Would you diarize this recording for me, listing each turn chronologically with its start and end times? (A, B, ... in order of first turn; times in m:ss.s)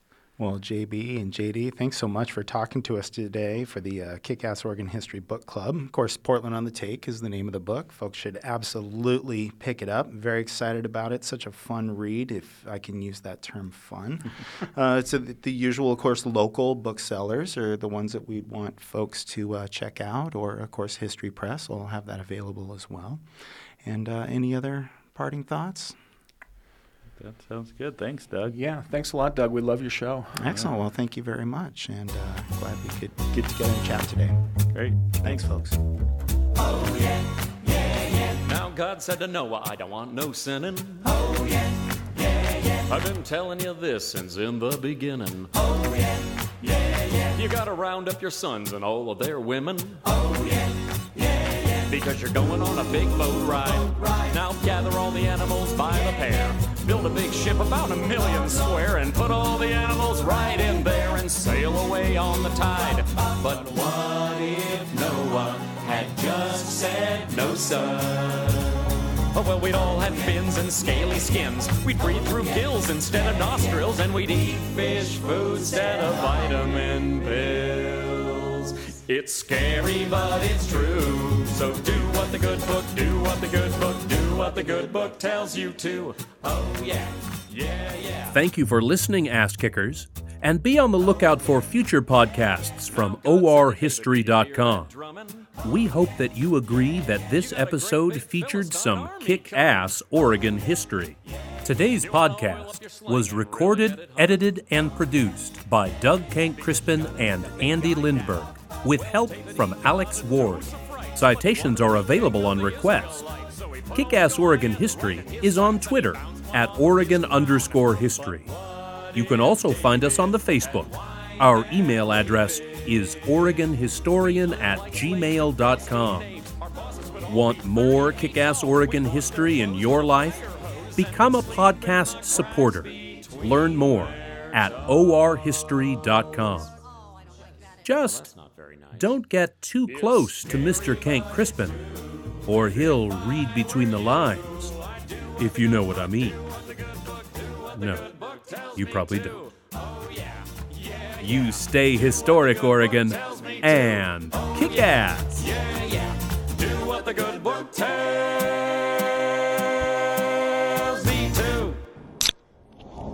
0:00.4-0:23.2 A
0:23.8-0:26.0 A
0:27.2-0:28.5 B
0:28.5-0:30.5 C
0:30.4-0:34.4 A
0:34.7-0:35.4 B
0:35.2-0:35.8 A
0:36.7-0:37.0 D
0:38.3-0:41.5 D
0:42.9-0:45.9 D
0:46.6-0:50.7 D
0:51.8-1:08.8 D
1:09.3-1:28.4 D
1:28.3-1:34.9 E
1:32.7-1:35.9 D
1:35.6-1:53.2 E
1:36.7-1:40.6 D
1:41.6-1:45.3 D
1:46.0-2:03.1 D
1:53.9-1:58.5 E
1:59.1-2:06.3 E
2:04.2-2:15.5 D
2:07.3-2:10.4 E
2:11.0-2:16.7 E
2:17.8-2:18.3 E
2:17.9-2:19.2 D
2:18.9-2:21.8 E
2:19.8-2:39.2 D
2:22.4-2:24.7 E
2:25.4-2:26.4 E
2:27.8-2:28.0 E
2:28.8-2:29.4 E
2:31.2-2:35.5 E
2:40.5-2:41.8 D